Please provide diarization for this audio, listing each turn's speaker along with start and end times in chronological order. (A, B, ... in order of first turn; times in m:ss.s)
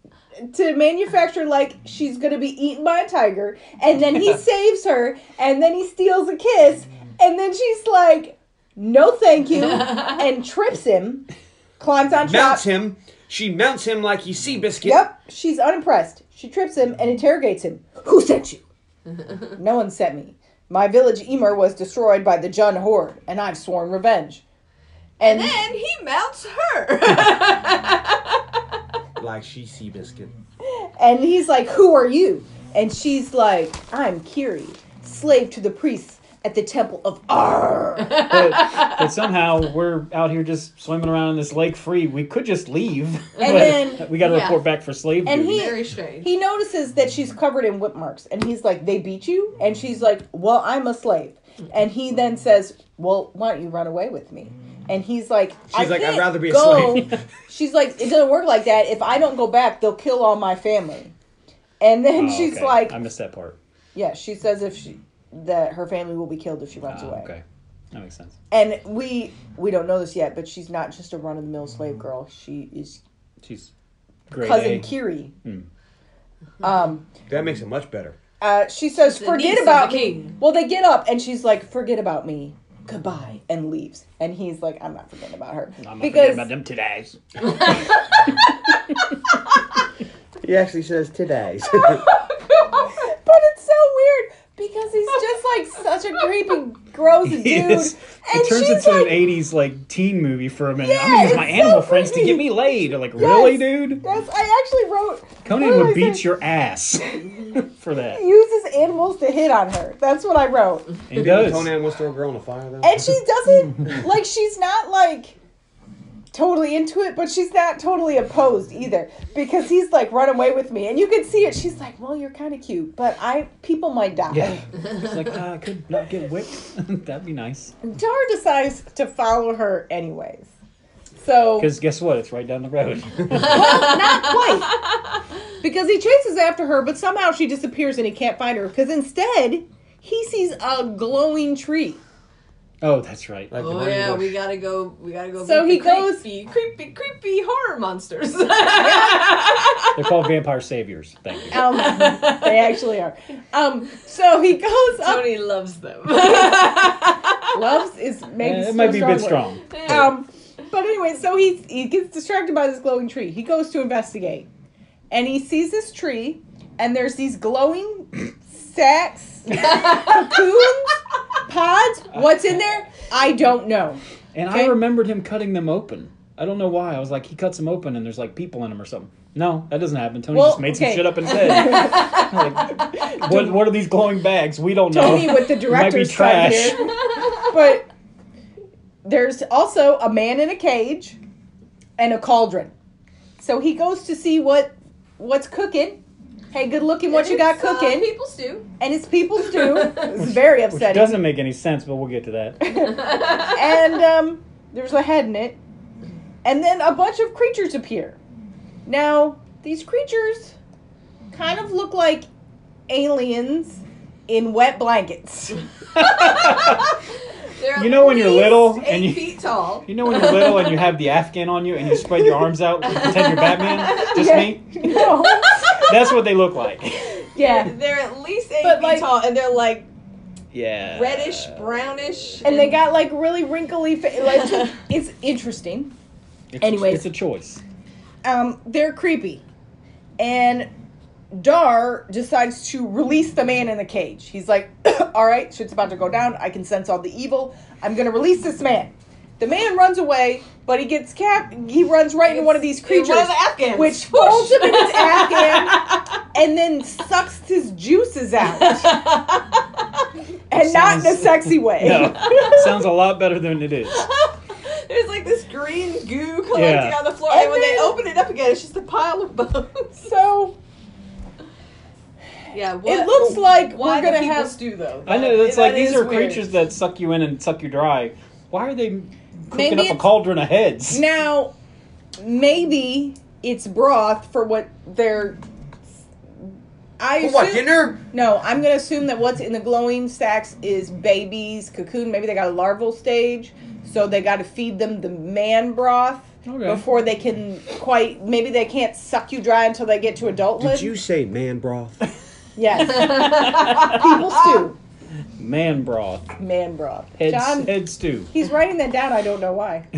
0:00.4-0:11.2 A
0:09.6-0:10.2 B
0:11.8-0:12.6 A
0:12.2-0:15.0 C
0:14.8-0:18.6 A
0:19.6-0:24.4 A
0:25.2-0:25.6 A
0:25.2-0:28.6 B
0:29.2-0:30.3 C
0:30.6-0:38.3 A
0:38.0-0:39.0 B
0:38.2-0:45.7 D
0:43.4-0:44.1 A
0:43.5-0:44.6 B
0:45.2-1:01.1 A
0:45.4-0:46.3 B
0:55.7-0:57.2 C
1:01.8-1:03.0 A
1:02.2-1:03.6 D
1:03.9-1:07.3 A
1:06.9-1:07.4 D
1:07.9-1:08.4 D
1:08.5-1:13.0 A
1:13.4-1:13.7 D
1:14.3-1:14.9 D
1:14.4-1:15.3 A
1:16.6-1:17.1 A
1:17.3-1:18.2 C
1:18.4-1:26.5 A
1:19.0-1:20.4 B
1:25.8-1:27.8 D
1:27.4-1:28.4 B
1:30.4-1:32.0 C
1:32.0-1:32.2 A
1:32.5-1:32.9 B
1:32.9-1:39.2 A
1:37.2-1:44.0 D
1:40.8-1:42.5 A
1:43.1-1:46.2 A
1:45.4-1:48.2 D
1:48.0-1:50.9 A
1:51.1-1:51.7 D
1:51.1-1:53.2 C
1:52.8-1:55.4 A
1:56.3-2:04.7 A
2:04.3-2:07.7 D
2:07.8-2:10.5 A
2:11.2-2:11.7 A
2:11.6-2:13.7 D
2:13.4-2:14.8 A
2:13.4-2:15.0 B
2:15.6-2:22.0 A
2:22.8-2:23.5 D
2:23.5-2:24.4 C
2:23.5-2:30.1 B
2:25.4-2:26.2 A
2:28.8-2:29.3 A
2:29.9-2:31.6 D
2:31.5-2:35.3 A
2:31.6-2:32.8 B
2:35.0-2:37.5 B
2:36.3-2:36.6 A
2:37.5-2:44.5 A
2:38.4-2:40.1 D
2:39.7-2:40.1 B
2:45.1-2:54.8 A
2:49.5-2:50.4 B
2:52.1-2:52.4 D
2:54.3-3:07.0 D
3:00.3-3:02.2 A
3:01.4-3:02.5 B
3:03.0-3:03.6 A
3:04.9-3:07.9 A
3:07.0-3:07.4 B
3:09.0-3:11.2 A
3:12.0-3:12.7 A
3:13.4-3:16.0 A
3:16.5-3:18.1 A
3:17.1-3:18.7 B
3:18.8-3:21.2 A
3:19.5-3:20.0 B
3:20.1-3:22.7 D
3:22.6-3:25.6 A
3:23.1-3:23.5 B
3:26.4-3:28.2 A
3:28.8-3:30.6 A
3:31.3-3:32.2 A
3:32.9-3:35.6 A
3:36.0-3:36.9 D
3:36.0-3:40.9 B
3:37.7-3:45.1 D
3:42.8-3:44.2 B
3:44.0-3:45.9 A
3:44.9-3:45.9 B
3:45.7-3:47.2 D
3:47.3-3:47.7 A
3:47.3-3:49.9 B
3:48.6-3:49.1 A
3:50.5-3:51.6 D
3:50.9-3:52.8 B
3:52.4-3:55.9 A
3:54.2-3:54.7 B
3:56.5-3:57.6 D
3:56.6-3:57.1 A
3:58.2-3:59.4 A
4:00.2-4:00.7 A
4:01.3-4:19.0 A
4:12.2-4:16.2 B
4:18.4-4:19.6 B
4:20.5-4:22.6 A
4:20.5-4:24.1 D
4:22.0-4:22.7 B
4:23.9-4:30.0 B
4:26.5-4:27.0 D
4:27.3-4:28.0 A
4:30.0-4:30.6 A
4:32.5-4:36.5 B
4:32.8-4:34.6 A
4:35.0-4:41.0 D
4:39.5-4:40.0 A
4:40.9-4:41.5 A
4:42.2-4:45.4 A
4:46.4-5:00.9 A
4:47.2-4:48.0 C
4:56.4-4:56.8 D
5:00.6-5:02.0 C
5:02.6-5:04.8 A
5:02.8-5:04.6 B
5:03.0-5:04.0 D
5:05.4-5:06.3 D
5:06.4-5:07.8 A
5:07.2-5:08.3 D
5:08.3-5:09.8 A